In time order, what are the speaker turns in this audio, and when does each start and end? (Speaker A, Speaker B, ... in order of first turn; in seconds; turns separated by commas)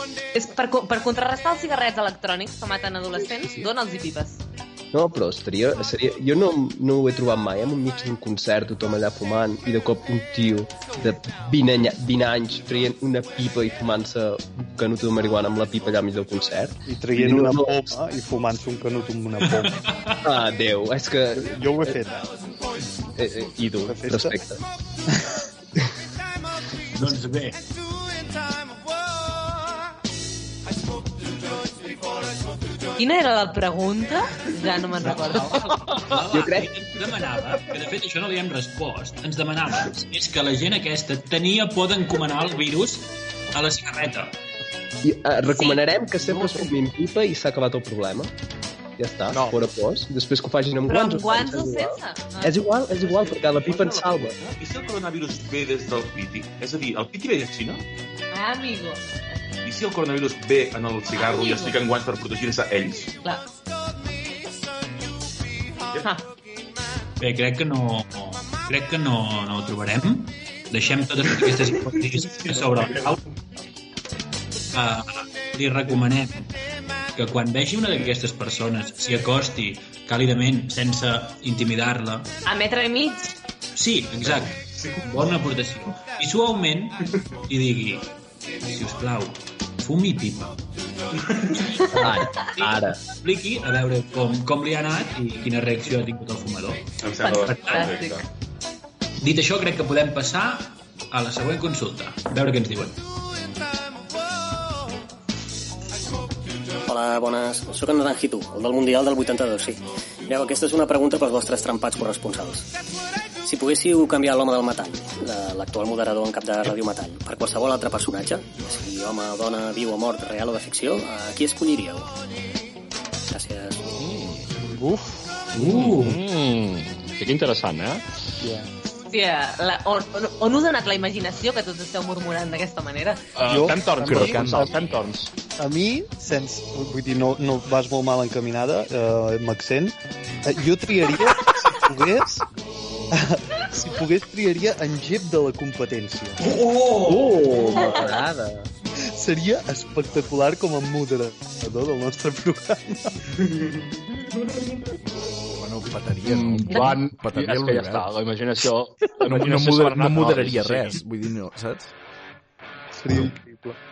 Speaker A: 0.3-4.4, Speaker B: 4.9-17.9, Speaker C: 16.9-19.8, Speaker D: 19.4-20.2, Speaker B: 20.2-22.0, Speaker C: 21.4-22.3, Speaker B: 23.1-24.6, Speaker C: 23.8-24.4, Speaker D: 26.9-27.6, Speaker A: 33.0-35.8, Speaker D: 35.4-44.4, Speaker B: 36.2-36.7, Speaker B: 45.0-48.3, Speaker A: 45.5-45.8, Speaker B: 49.0-54.4, Speaker A: 50.9-52.6, Speaker E: 52.9-57.8, Speaker A: 58.3-59.2, Speaker E: 59.6-63.1, Speaker A: 61.1-61.8, Speaker D: 67.2-73.2, Speaker E: 71.4-73.2, Speaker D: 74.7-76.5, Speaker D: 77.2-82.3, Speaker A: 82.5-83.3, Speaker D: 83.7-88.1, Speaker E: 84.2-85.3, Speaker D: 88.7-90.6, Speaker E: 91.1-91.8, Speaker D: 91.8-97.9, Speaker B: 91.9-93.0, Speaker E: 97.0-98.2, Speaker A: 97.2-98.2, Speaker D: 99.2-103.0, Speaker F: 106.8-112.7, Speaker F: 113.4-122.1, Speaker F: 123.3-123.8, Speaker G: 124.0-128.0, Speaker D: 125.6-126.1, Speaker C: 128.4-128.7, Speaker A: 129.1-133.2, Speaker G: 133.3-135.3, Speaker C: 133.4-134.8, Speaker H: 134.0-134.7, Speaker C: 135.6-142.4, Speaker C: 143.1-146.4, Speaker E: 146.4-147.3, Speaker B: 147.0-148.7, Speaker A: 147.8-148.2, Speaker C: 149.1-153.2, Speaker E: 154.4-154.7, Speaker H: 155.5-158.1, Speaker G: 156.2-161.0, Speaker H: 159.2-161.9, Speaker C: 162.9-163.8